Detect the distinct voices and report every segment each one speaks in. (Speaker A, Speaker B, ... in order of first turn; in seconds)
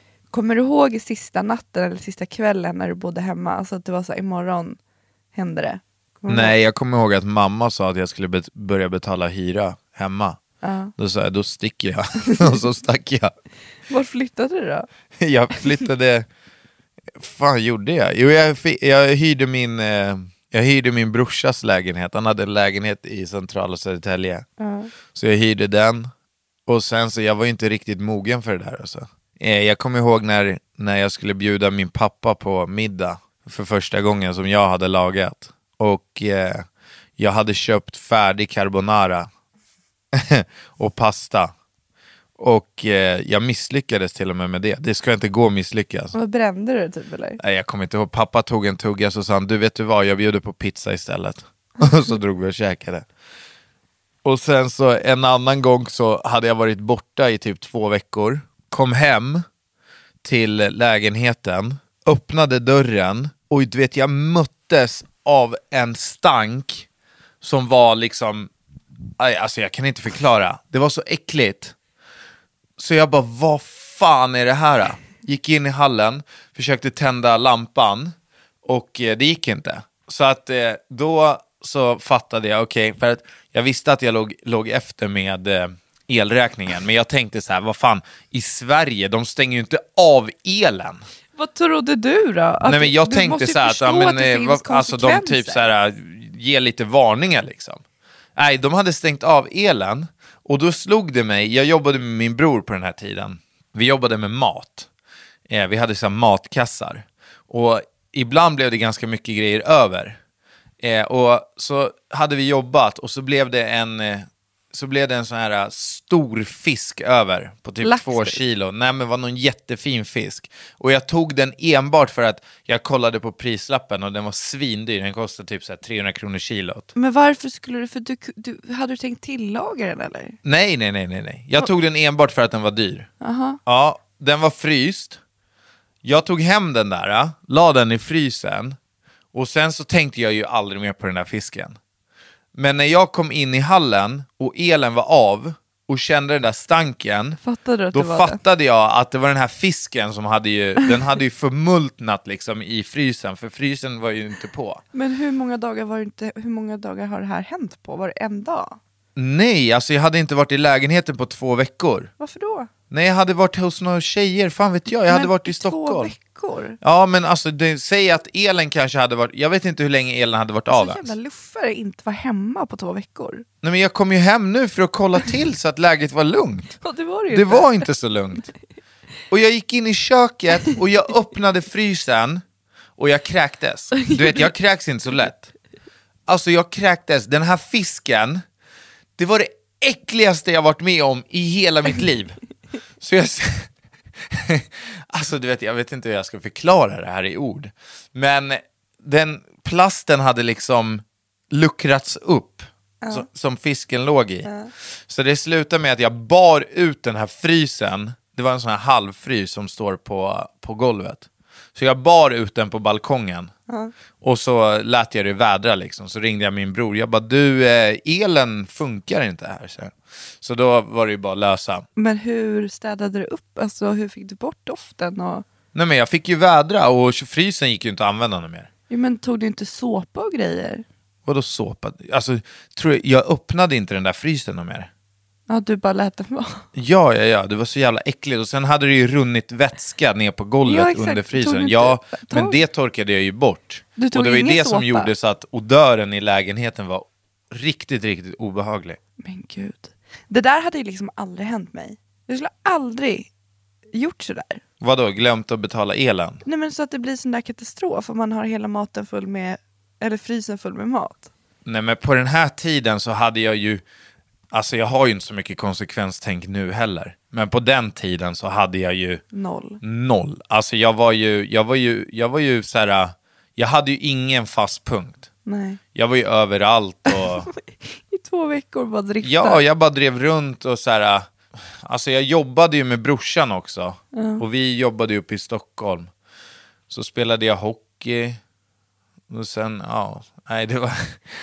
Speaker A: 0.3-4.8, 5.3-6.5, 10.6-10.9, 13.9-14.9, 24.6-24.9, 46.1-47.4, 91.3-95.7, 117.8-118.4, 127.0-130.4, 133.2-133.6, 147.4-148.4, 154.9-158.8, 162.2-162.7, 165.1-166.8, 170.7-173.4, 176.8-177.8, 184.0-184.5, 204.4-204.7, 222.0-225.4, 228.9-230.8, 235.5-236.6, 240.7-242.6, 244.0-245.1, 249.2-253.3, 253.9-254.6, 256.4-261.3, 269.3-269.8, 275.5-275.8, 278.1-279.6, 284.1-284.4
Speaker B: 6.3-10.4, 11.0-13.3, 15.2-16.3, 17.1-24.5, 25.1-26.1, 26.7-36.6, 37.2-39.3, 40.1-41.5, 42.4-46.1, 47.4-53.1, 54.2-59.5, 60.2-66.9, 67.4-68.5, 69.2-71.8, 72.8-91.0, 92.6-97.8, 98.4-104.9, 105.5-110.2, 110.8-126.9, 130.4-133.1, 133.7-135.2, 136.0-138.8, 139.3-141.8, 142.6-147.4, 147.9-154.8, 159.2-162.1, 162.9-166.1, 166.8-171.2, 173.6-178.5, 179.3-182.4, 183.0-185.5, 186.3-188.4, 189.2-192.4, 193.0-193.7, 194.3-204.5, 205.1-213.5, 214.2-221.9, 225.7-228.7, 231.3-234.9, 236.8-249.0, 254.8-256.4, 261.6-263.8, 264.5-269.2, 269.8-275.3, 275.9-277.5, 279.2-281.3, 281.8-286.1, 286.9-288.4, 289.3-291.2